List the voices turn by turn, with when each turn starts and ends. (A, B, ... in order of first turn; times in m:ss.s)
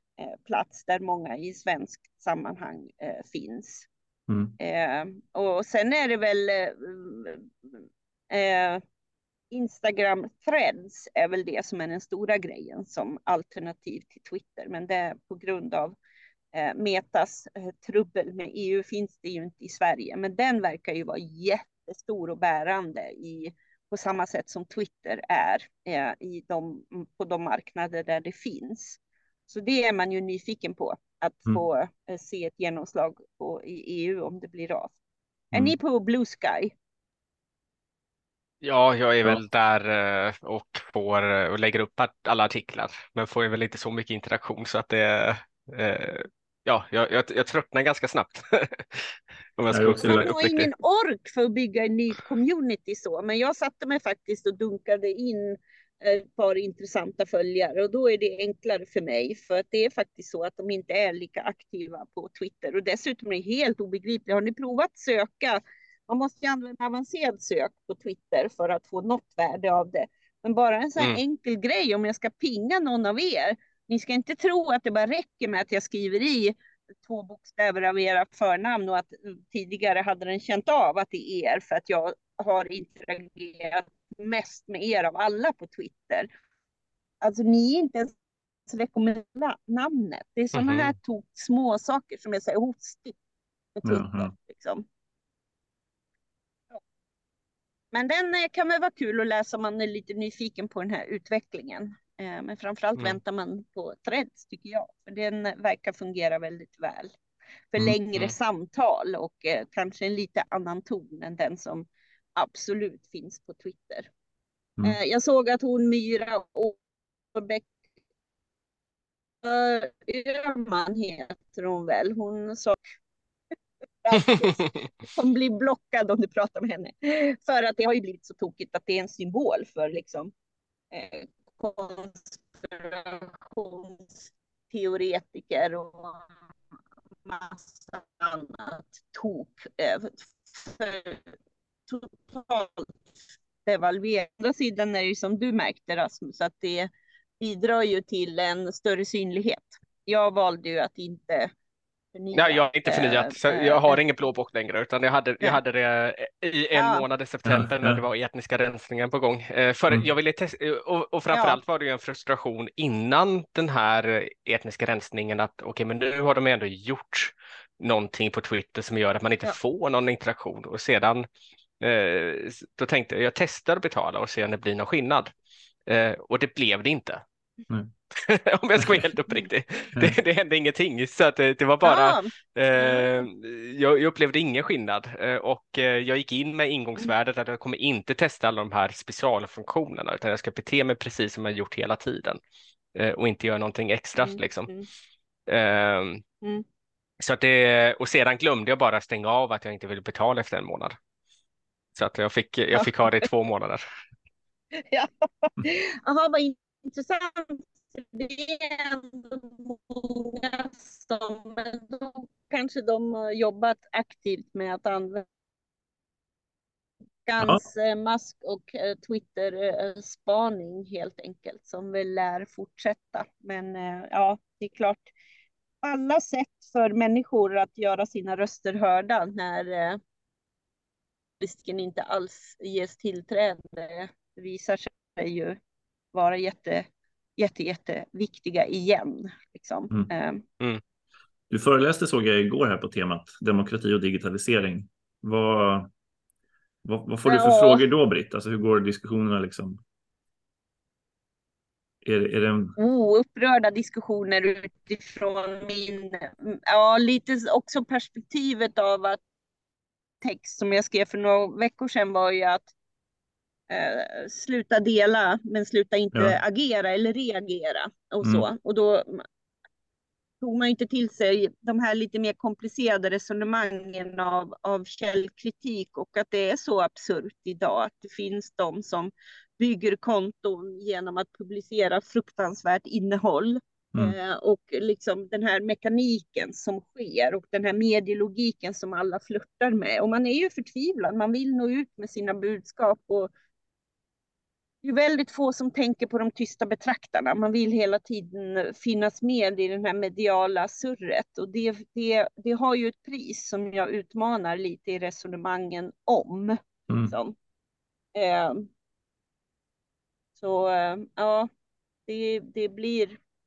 0:00.2-0:03.9 A
0:04.3-0:04.6 B
0:04.6-0:08.8 A
0:09.5-0:16.0 A
0:16.5-0:35.0 A
0:35.5-0:36.8 A
0:38.6-0:50.7 C
0:49.7-0:50.4 B
0:50.0-1:26.3 A
1:27.2-1:28.1 A
1:28.7-1:33.2 A
1:30.5-1:30.9 C
1:33.8-1:34.8 A
1:33.8-1:34.3 B
1:37.9-1:47.2 A
1:47.7-1:54.1 A
1:54.8-1:56.8 A
1:57.3-1:57.7 A
1:59.4-2:02.8 A
2:04.0-2:10.3 A
2:10.9-2:16.3 A
2:17.3-2:21.3 A
2:21.9-2:23.0 A
2:23.6-2:31.5 A
2:32.1-2:34.0 A
2:32.3-2:51.3 C
2:36.7-2:37.0 A
2:37.4-2:38.0 B
2:41.3-2:41.6 A
2:51.8-2:55.3 C
2:55.9-2:57.2 C
2:58.1-3:12.4 C
2:58.8-2:59.0 B
3:01.8-3:03.2 A
3:13.0-3:14.7 C
3:14.2-3:14.9 A
3:15.5-3:16.2 C
3:17.2-3:21.0 C
3:22.0-3:23.8 C
3:22.7-3:23.3 A
3:24.9-3:35.2 A
3:37.2-3:45.1 A
3:45.8-3:50.0 A
3:51.4-3:55.6 A
3:56.1-4:00.4 A
4:01.5-4:05.9 B
4:06.8-4:09.8 B
4:07.3-4:07.8 A
4:12.0-4:12.8 B
4:12.8-4:19.2 A
4:20.2-4:22.7 A
4:23.7-4:29.2 A
4:28.2-4:28.5 B
4:30.4-4:53.3 A
4:54.8-5:07.4 A
5:06.9-5:07.1 B
5:08.2-5:08.7 A
5:10.4-5:11.5 A
5:12.1-5:13.2 A